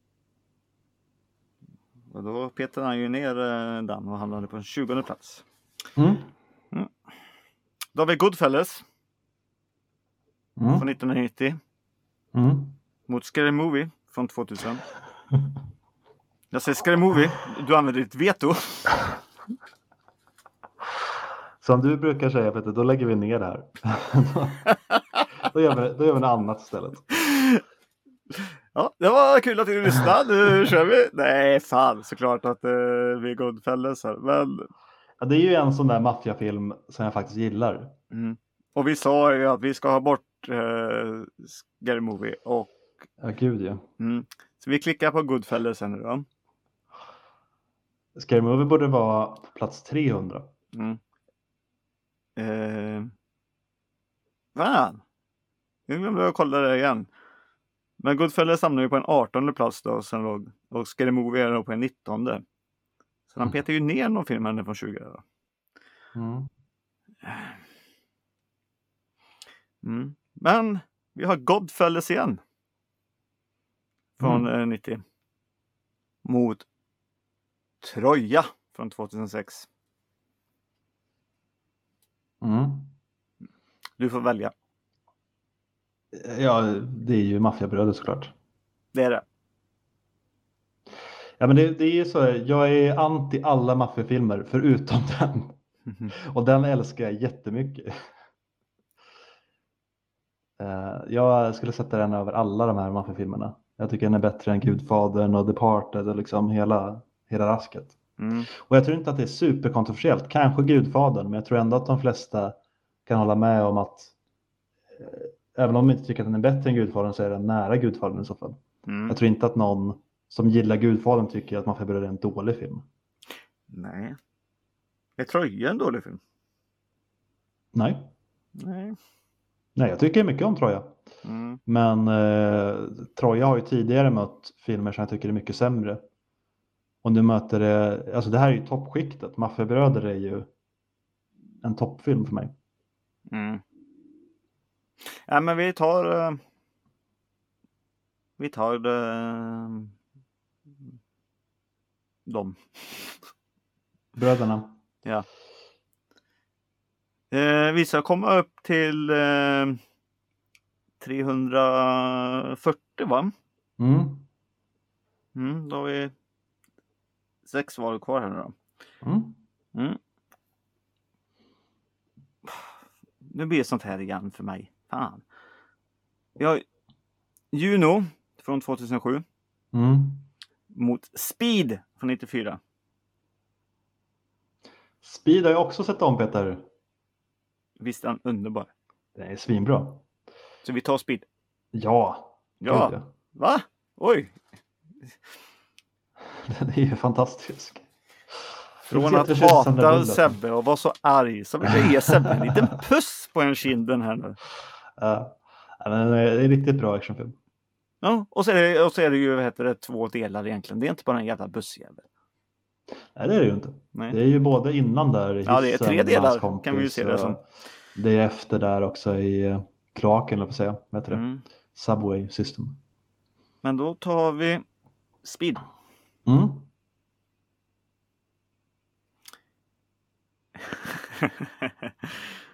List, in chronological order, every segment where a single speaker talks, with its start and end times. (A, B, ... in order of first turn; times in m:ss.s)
0:02.1-0:05.4 A
0:06.0-0:06.3 B
0:07.9-0:08.8 A
0:10.6-0:10.8 B
0:10.7-0:11.6 A
0:12.3-0:12.8 B
0:13.1-0:14.8 A
0:16.5-0:19.0 A
0:21.6-0:24.7 B
0:25.4-0:27.1 B
0:27.2-0:27.6 A
0:28.3-0:34.7 A
0:35.2-0:37.9 B
0:38.1-0:42.7 A
0:43.2-0:43.8 B
0:44.0-0:46.3 A
0:48.1-0:50.5 B
0:50.7-0:51.0 A
0:52.4-0:53.1 A
0:54.5-0:55.0 A
0:55.9-0:57.1 A
0:58.0-1:02.4 A
1:03.3-1:05.2 A
1:06.1-1:06.5 B
1:07.2-1:07.5 A
1:09.8-1:12.4 A
1:14.2-1:15.0 A
1:16.2-1:16.7 A
1:17.8-1:19.7 A
1:22.4-1:22.9 B
1:24.0-1:24.5 A
1:26.1-1:28.3 B
1:28.9-1:29.2 A
1:31.4-1:35.6 B
1:36.1-1:37.9 B
1:40.6-1:48.0 B
1:48.2-1:48.5 A
1:48.5-1:54.1 B
1:55.0-2:02.8 B
1:58.8-1:59.2 A
2:03.7-2:04.2 A
2:05.2-2:06.2 A
2:07.7-2:08.1 B
2:08.6-2:09.0 A
2:09.8-2:11.0 B
2:11.2-2:11.6 A
2:11.6-2:16.0 B
2:17.0-2:20.5 B
2:21.6-2:22.5 B
2:23.3-2:23.6 A
2:25.0-2:26.4 A
2:28.4-2:29.9 A
2:32.2-2:33.2 A
2:34.1-2:34.8 B
2:37.3-2:39.8 A
2:41.0-2:43.3 A
2:43.8-2:44.2 B
2:45.3-2:46.1 A
2:47.4-2:48.5 A
2:49.0-2:49.4 B
2:49.7-2:50.0 A
2:52.4-2:52.7 A
2:53.2-2:55.2 A
2:56.4-2:56.6 A
2:57.5-2:59.2 A
2:59.7-3:00.2 B
3:00.7-3:02.6 A
3:05.0-3:06.6 B
3:07.8-3:08.7 A
3:09.2-3:10.0 B
3:10.6-3:11.3 A
3:11.7-3:13.1 B
3:12.6-3:14.4 A
3:16.4-3:17.8 B
3:18.9-3:20.4 B
3:18.9-3:24.4 A
3:21.6-3:22.7 B
3:25.0-3:27.4 B
3:28.0-3:32.0 A
3:33.1-3:37.4 B
3:35.4-3:37.4 A
3:38.0-3:41.2 B
3:41.1-3:41.4 A
3:41.7-3:42.8 B
3:43.6-3:44.6 A
3:45.2-3:45.6 A
3:46.2-3:46.7 B
3:50.6-3:52.3 A